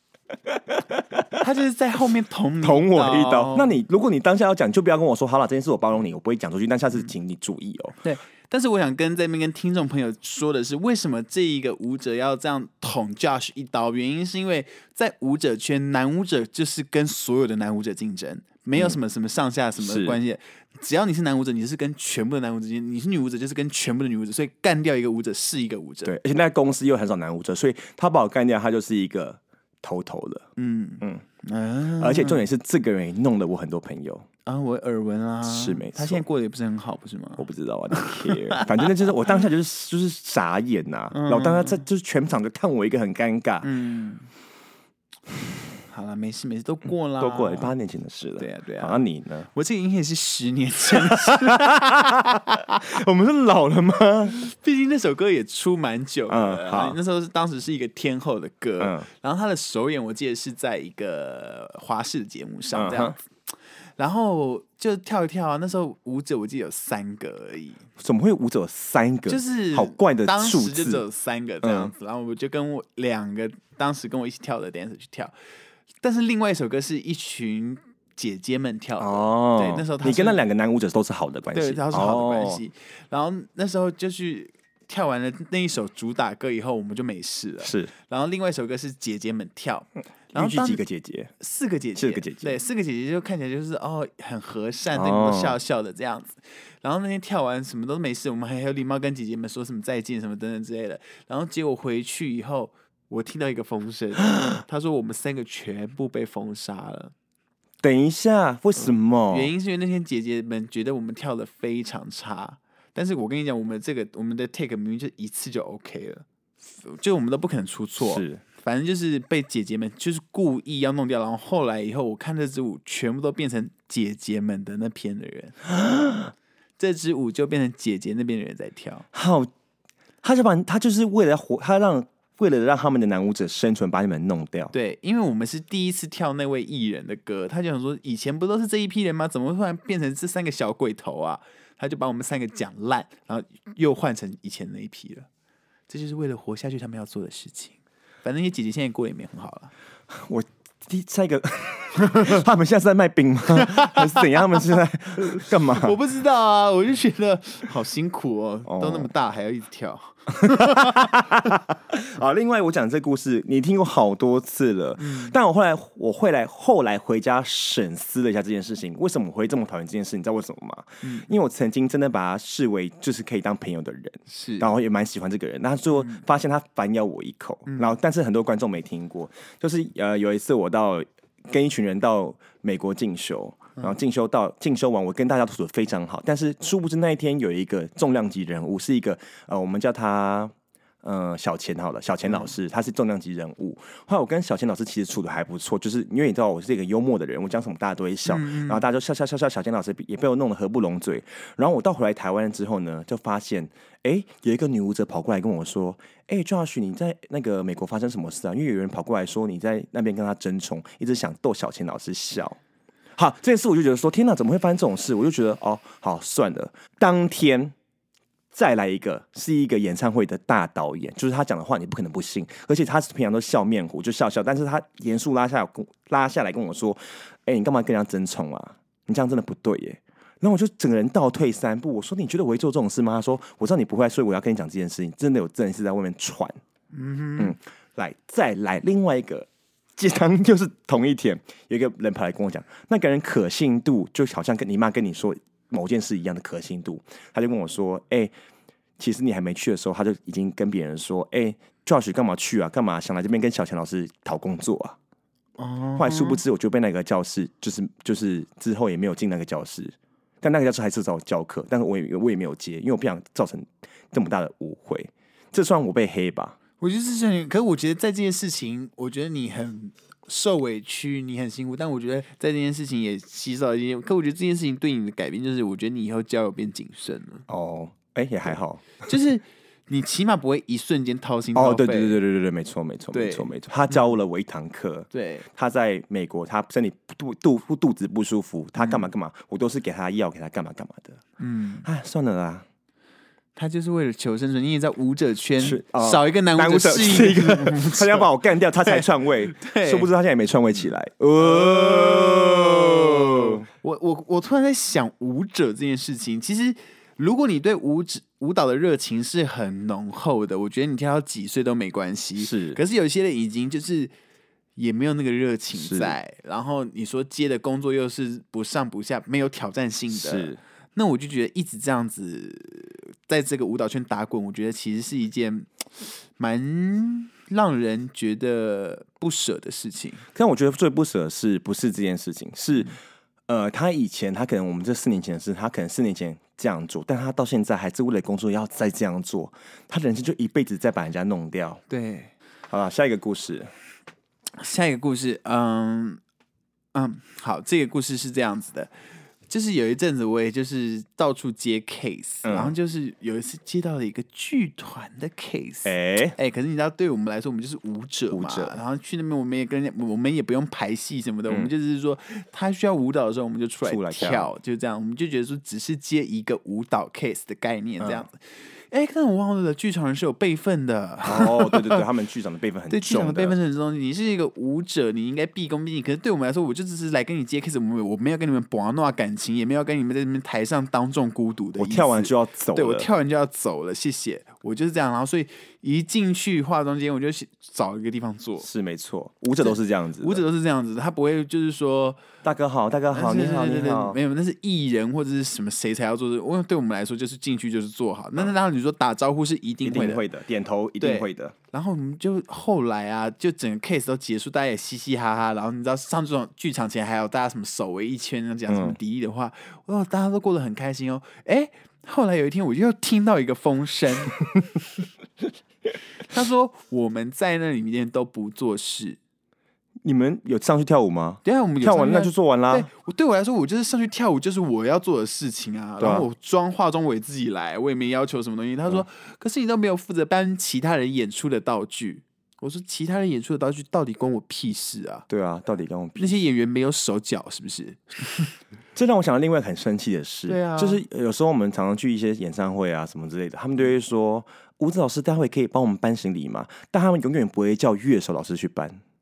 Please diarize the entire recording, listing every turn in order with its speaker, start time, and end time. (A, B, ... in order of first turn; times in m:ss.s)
0:00.7-0:01.2 A
0:01.4-0:03.8 B
0:02.6-0:08.0 A
0:08.0-0:26.1 B
0:19.8-0:20.2 A
0:26.0-0:30.4 A
0:30.6-0:32.4 B
0:32.0-0:34.2 A
0:34.4-0:38.7 B
0:35.4-0:36.2 A
0:37.4-0:43.7 A
0:41.1-0:41.8 B
0:43.6-0:44.3 B
0:45.9-0:47.7 B
0:47.2-0:49.5 A
0:48.4-0:49.0 B
0:49.5-0:52.8 B
0:51.1-0:54.4 A
0:54.3-1:03.2 B
0:56.3-0:57.0 A
0:58.8-0:59.1 A
1:02.7-1:03.2 A
1:04.0-1:07.8 B
1:08.0-1:11.0 A
1:09.3-1:15.3 B
1:11.6-1:11.9 A
1:16.0-1:20.4 B
1:19.0-1:22.6 A
1:21.5-1:30.8 B
1:27.6-1:27.9 A
1:30.3-1:31.3 A
1:31.4-1:47.1 B
1:32.0-1:32.6 A
1:34.9-1:35.6 A
1:47.8-1:49.5 A
1:49.3-2:05.6 B
1:58.0-1:58.4 A
2:05.8-2:06.3 A
2:06.8-2:09.0 B
2:09.1-2:09.5 A
2:10.2-2:14.7 A
2:14.7-2:25.3 B
2:25.9-2:29.7 B
2:30.1-2:36.0 A
2:33.6-2:34.2 B
2:35.4-2:41.1 B
2:38.6-2:39.1 A
2:40.3-3:32.6 A
2:45.0-2:45.4 B
2:51.0-2:51.3 B
2:54.3-2:54.7 B
2:57.7-2:57.9 B
3:18.2-3:18.8 B
3:33.2-3:37.7 A
3:38.5-3:56.6 A
3:56.9-3:57.5 B
3:57.4-4:08.3 A
4:09.0-4:15.0 A
4:15.6-4:16.4 B
4:16.0-4:26.6 A
4:26.8-4:37.4 B
4:37.5-4:39.0 A
4:39.0-4:42.2 B
4:41.5-4:51.2 A
4:43.1-4:44.0 B
4:45.1-4:45.5 B
4:48.8-4:49.0 B
4:51.4-4:51.9 B
4:51.8-4:52.6 A
4:53.6-4:58.3 B
4:55.6-5:03.6 A
4:58.8-5:00.1 B
5:01.4-5:14.1 B
5:12.4-5:12.8 A
5:14.8-5:30.2 B
5:15.8-5:16.1 A
5:20.1-5:20.6 A
5:30.3-5:33.0 A
5:33.5-5:41.8 A
5:41.9-5:42.3 B
5:42.7-5:43.7 A
5:44.6-5:46.2 B
5:46.9-5:48.9 B
5:49.5-6:12.0 B
5:52.4-5:52.7 A
5:55.8-5:56.4 A
5:58.3-5:58.8 A
6:03.8-6:04.5 A
6:08.0-6:08.2 A
6:11.2-6:13.6 A
6:12.9-6:28.7 B
6:21.8-6:23.1 A
6:28.6-6:30.4 A
6:29.6-6:32.2 B
6:32.4-6:34.2 A
6:33.1-6:40.2 B
6:39.8-6:41.5 A
6:41.0-6:54.4 B
6:48.7-6:49.0 A
6:56.2-6:59.2 B
7:00.0-7:02.9 A
7:01.4-7:15.3 B
7:06.0-7:06.3 A
7:15.3-7:16.4 A
7:16.2-7:18.5 B
7:18.9-7:29.0 A
7:20.5-7:21.0 B